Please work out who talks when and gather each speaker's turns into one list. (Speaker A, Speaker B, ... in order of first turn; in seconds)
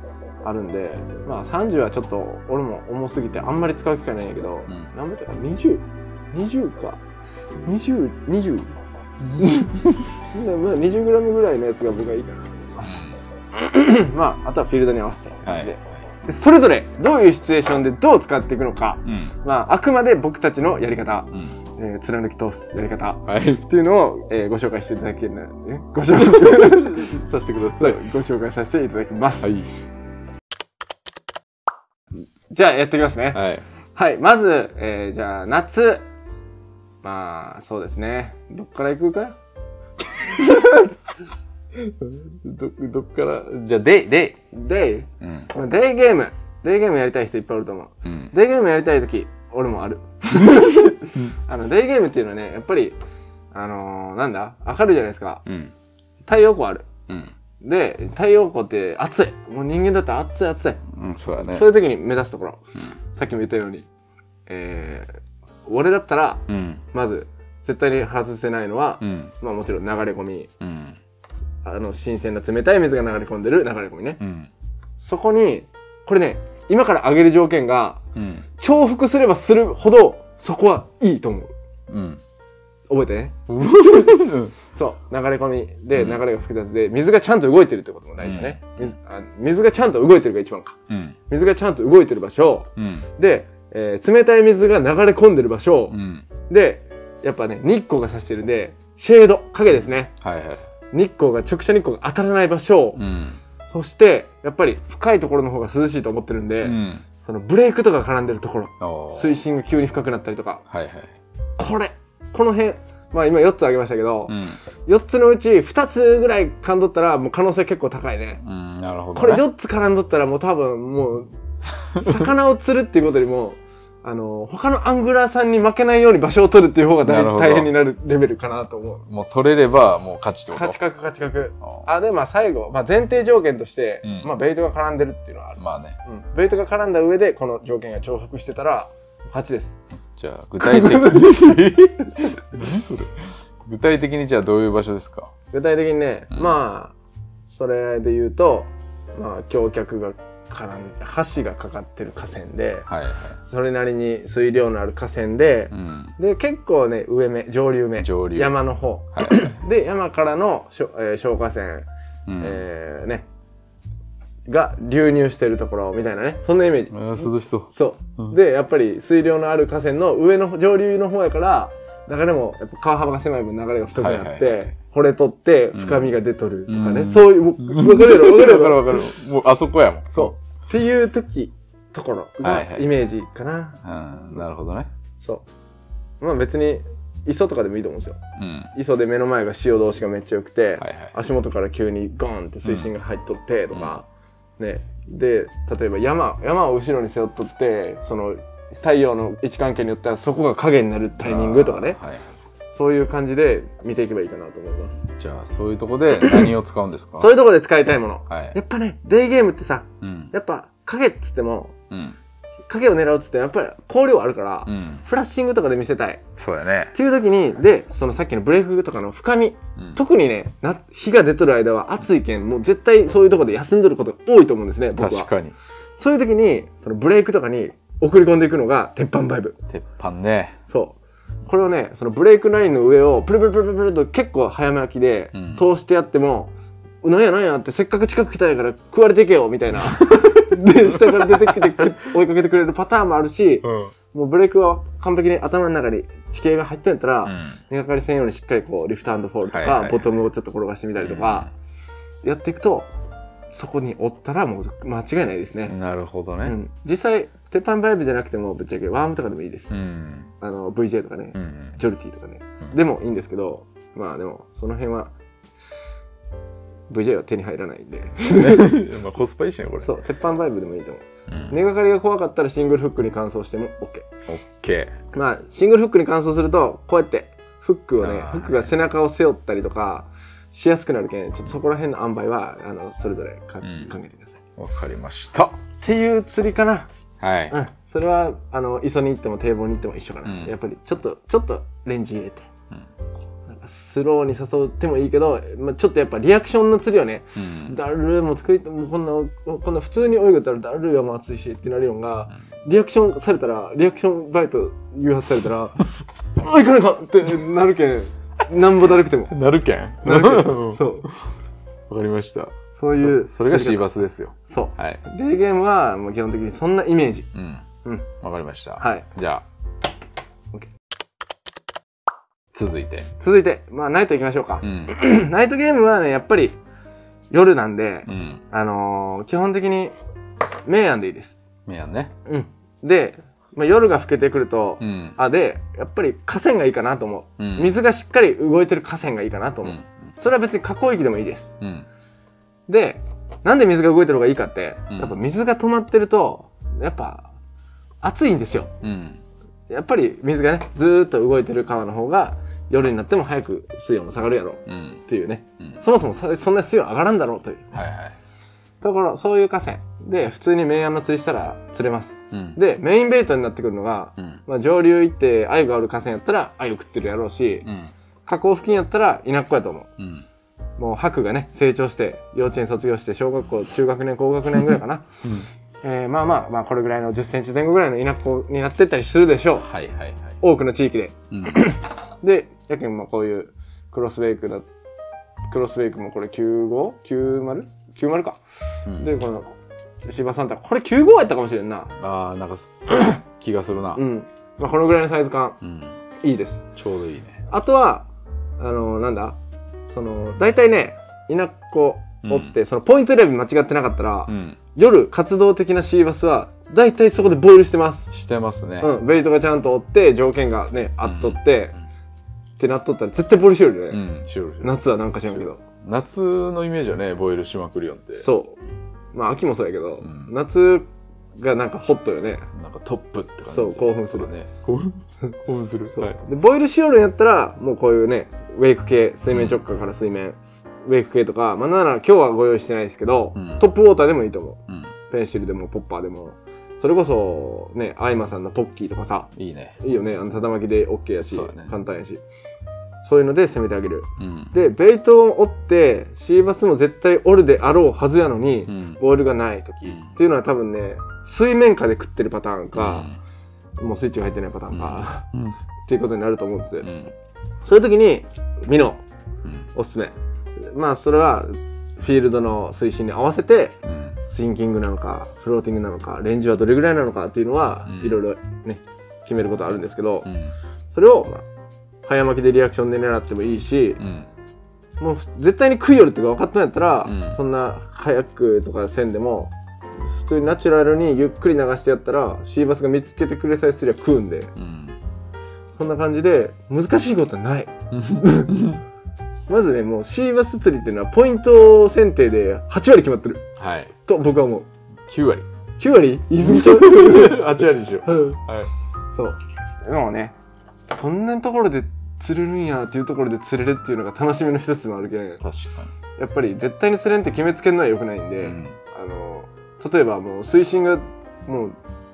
Speaker A: 0.4-7.0, 7.7-8.7, 9.4-27.1, 27.8-29.5, 32.5-33.4, 34.0-36.0, 37.0-39.4, 44.5-53.0, 53.5-55.4, 56.2-56.9, 57.6-60.8, 61.4-63.9, 64.5-70.5, 71.6-74.2, 75.0-78.0, 78.6-81.5, 82.9-83.4, 84.7-90.8, 91.3-96.0, 96.5-100.1, 100.9-103.0, 103.7-110.6, 111.6-118.4, 119.1-121.3, 121.9-129.1, 130.5-139.8, 140.6-141.6, 145.5-146.9, 147.5-152.9, 153.4-161.9, 162.4-163.2, 164.5-179.1, 180.1-183.8, 186.2-188.2, 188.7-194.1, 194.6-202.0, 202.7-205.1, 207.2-211.8, 212.7-216.2, 216.9-225.3, 226.0-229.6, 230.7-251.5, 252.2-252.9, 253.5-255.7, 256.4-259.8, 260.4-265.1, 266.9-268.8, 269.8-274.1, 275.1-284.4, 285.8-286.9, 287.5-292.5, 293.5-309.3, 310.0-311.1, 312.8-313.9, 314.5-317.3, 318.8-319.1, 323.2-326.6, 327.3-329.9, 330.6-331.4, 332.2-341.6, 342.7-347.3, 348.0-348.7, 349.7-357.8, 358.8-367.7, 368.2-369.9, 370.8-375.1, 375.8-379.7, 380.4-384.6, 385.5-388.4, 389.0-389.5, 390.0-391.9, 393.9-395.6, 396.2-396.6, 397.5-398.1, 398.6-399.4, 399.9-408.1, 408.8-411.8, 412.6-414.0, 414.6-415.6, 418.2-418.6, 419.1-422.5, 423.5-424.3, 425.9-442.2, 443.0-453.1, 453.8-455.3, 455.9-456.9, 457.6-459.0, 459.7-470.3, 470.9-471.4, 472.0-474.0, 475.0-484.5, 485.7-488.6, 489.5-493.5, 494.0-494.7, 495.8-497.4, 498.1-498.4, 499.1-500.4, 500.9-505.4, 506.2-511.8
Speaker B: 4.7-4.9, 9.2-10.1, 12.9-13.2, 15.4-15.7, 19.0-19.3, 23.3-23.6, 26.2-28.0, 29.4-29.7, 33.3-33.6, 41.7-44.4, 45.2-45.5, 48.0-48.3, 55.5-55.7, 60.9-61.7, 66.5-66.8, 69.0-69.3, 70.6-71.0, 74.2-74.5, 78.1-78.4, 81.9-82.2, 83.5-84.5, 85.9-86.2, 88.2-88.9, 90.9-91.2, 92.8-93.1, 95.9-96.2, 100.2-100.7, 103.0-103.4, 106.6-107.0, 108.8-109.4, 110.7-111.1, 114.3-114.6, 118.4-119.4, 127.0-127.7, 129.1-130.8, 131.6-131.9, 134.0-134.3, 135.6-136.0, 140.1-145.3, 146.3-146.6, 152.9-153.4, 155.7-156.1, 158.0-158.6, 159.2-159.5, 162.3-162.6, 166.9-168.3, 174.0-174.6, 175.7-176.1, 176.7-180.3, 182.4-182.9, 183.8-184.9, 188.3-188.7, 190.8-191.1, 192.6-192.9, 193.7-194.0, 201.2-202.3, 205.2-207.4, 208.3-208.6, 210.0-210.3, 211.9-212.2, 214.6-215.0, 216.4-216.9, 224.9-225.6, 229.7-230.6, 235.3-235.6, 240.9-241.6, 243.6-243.9, 247.2-247.6, 249.4-250.1, 251.0-251.5, 255.7-256.6, 259.7-260.3, 261.3-261.8, 268.3-270.0, 271.3-271.6, 274.3-274.9, 278.0-278.7, 283.6-283.9, 284.6-285.6, 287.2-287.6, 290.2-290.5, 297.4-297.8, 309.3-311.3, 311.9-315.0, 317.3-317.6, 318.2-319.4, 322.5-323.1, 324.6-324.9, 328.1-328.4, 331.6-332.1, 334.8-335.2, 337.4-337.7, 339.6-339.9, 341.6-341.9, 344.9-345.2, 348.8-349.2, 354.6-355.0, 357.7-358.1, 362.3-362.6, 367.6-367.9, 370.0-370.2, 379.6-380.4, 381.3-381.6, 388.9-389.1, 392.0-394.0, 395.6-395.9, 396.8-397.4, 402.2-402.5, 404.3-404.6, 408.1-408.9, 411.0-411.4, 413.9-418.3, 420.0-420.3, 422.5-426.2, 429.3-429.6, 433.4-433.6, 434.7-434.9, 439.4-439.8, 441.2-441.7, 444.2-444.5, 448.7-449.0, 449.9-450.2, 452.7-453.2, 454.7-455.6, 456.8-457.1, 463.8-464.2, 467.9-468.2, 470.2-470.5, 474.0-474.3, 477.0-477.4, 484.6-485.0, 487.9-488.8, 493.6-493.9, 495.1-495.5, 496.4-498.7, 505.4-505.9, 508.4-508.8